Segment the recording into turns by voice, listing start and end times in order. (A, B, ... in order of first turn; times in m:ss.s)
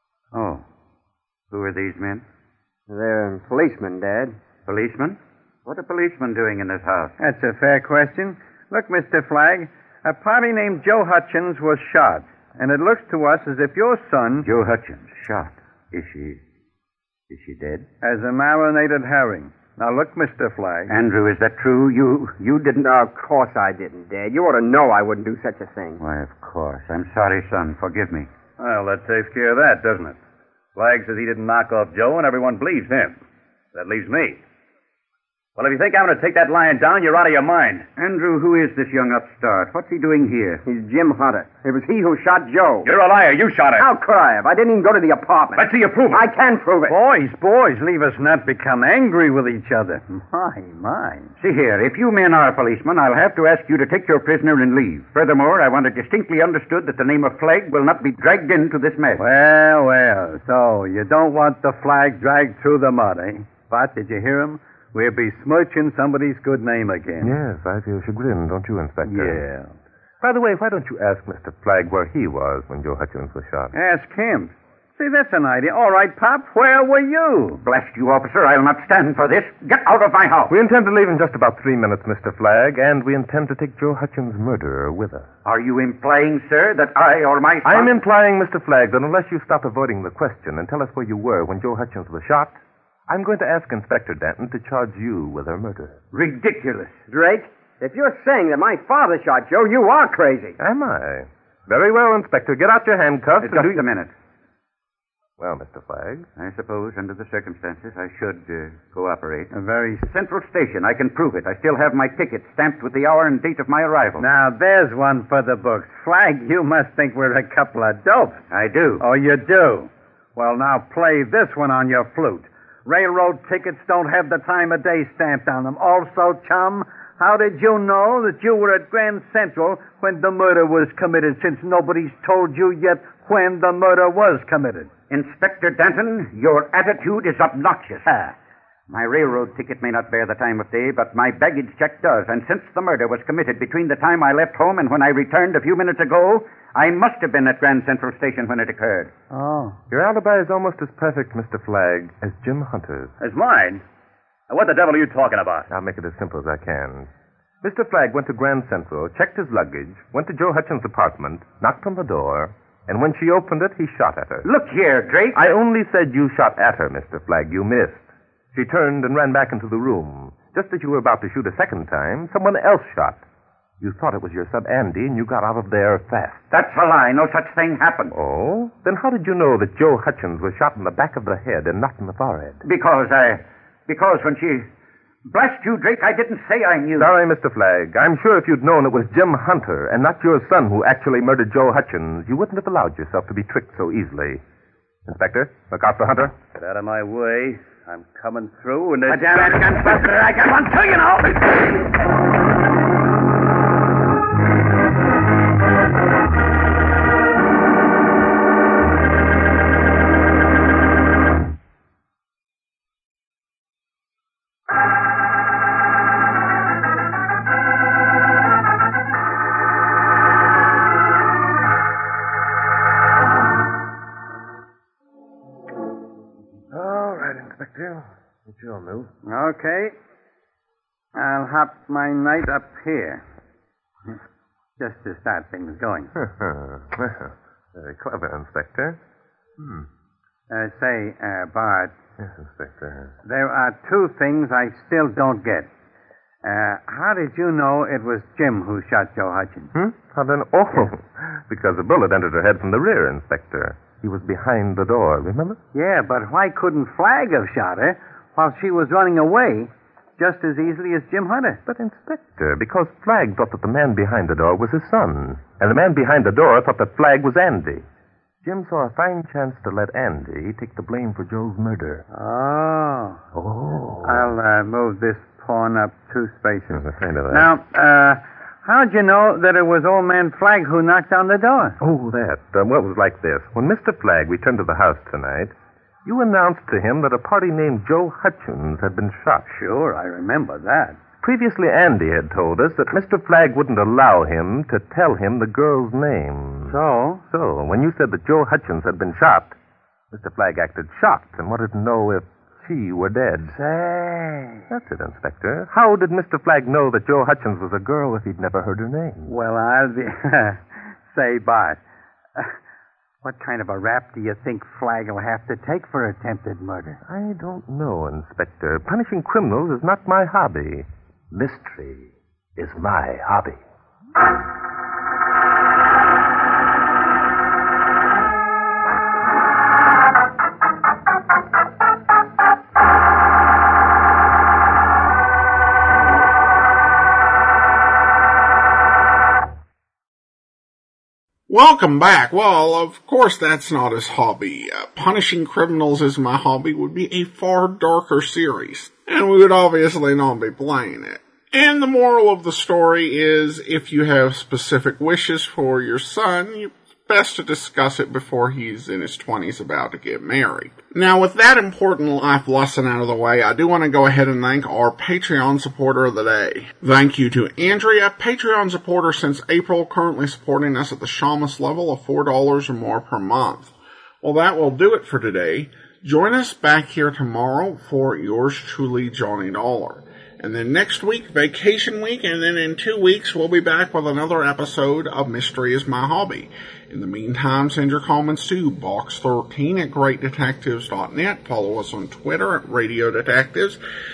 0:00.3-0:00.6 A
0:01.5-0:02.2 A
0:02.9-0:04.4 B
0:04.6-0:07.2 A
0:07.2-0:14.5 C
0:14.4-0:16.4 A
0:17.3-0:17.9 A
0:18.0-0:20.9 C
0:20.9-0:22.8 A
0:22.8-0:26.0 B
0:26.0-0:28.3 A
0:28.6-0:30.2 D
0:30.8-0:33.2 D
0:33.7-0:34.4 D
0:35.6-0:37.9 D
0:38.0-0:40.6 A
0:40.6-0:42.9 B
0:42.8-0:43.9 D
0:43.8-0:47.0 B
0:45.6-0:46.3 D
0:46.9-0:51.3 C
0:51.4-0:59.2 A
0:59.2-1:07.3 C
1:07.2-1:09.4 E
1:09.1-1:09.7 C
1:10.2-1:13.8 E
1:13.7-1:17.6 C
1:17.6-1:20.6 A
1:20.5-1:25.3 E
1:25.4-1:28.0 A
1:27.6-1:36.0 E
1:36.1-1:37.0 A
1:37.1-1:40.6 B
1:40.6-1:43.8 E
1:43.4-1:44.1 A
1:45.4-1:46.3 E
1:46.4-1:54.3 A
1:49.5-1:50.0 C
1:54.2-1:58.5 C
1:58.5-1:59.0 A
1:59.0-2:14.9 C
2:15.1-2:18.3 A
2:18.9-2:29.1 A
2:29.3-2:29.8 C
2:29.9-2:33.1 E
2:33.2-2:33.8 D
2:34.5-2:35.7 D
2:35.7-2:37.1 E
2:37.6-2:44.5 E
2:44.4-2:45.4 A
2:45.3-2:53.2 E
2:53.8-2:56.5 E
2:56.5-2:58.2 A
2:58.1-3:02.6 E
3:02.6-3:04.7 A
3:05.3-3:07.1 A
3:07.0-3:14.4 E
3:15.1-3:16.4 E
3:16.6-3:19.8 D
3:19.1-3:21.5 A
3:46.7-3:49.1 E
3:49.3-3:50.0 C
3:51.2-3:53.2 C
3:54.8-3:56.1 C
3:56.2-3:59.0 E
3:59.6-3:59.9 E
4:00.5-4:01.9 C
4:02.2-4:03.2 E
4:03.2-4:05.7 C
4:06.4-4:09.7 C
4:09.7-4:15.6 E
4:15.7-4:21.6 C
4:21.7-4:27.9 E
4:28.4-4:32.0 E
4:32.1-4:33.2 C
4:33.3-4:34.3 E
4:34.0-4:41.8 C
4:36.7-4:37.5 E
4:41.8-4:45.5 E
4:46.0-4:49.5 E
4:49.5-4:51.0 C
4:51.2-4:59.6 E
4:56.7-4:57.2 C
5:00.1-5:03.6 E
5:03.5-5:04.7 C
5:04.7-5:09.3 E
5:09.2-5:11.8 C
5:13.2-5:17.0 C
5:17.0-5:23.6 E
5:41.5-6:33.8 F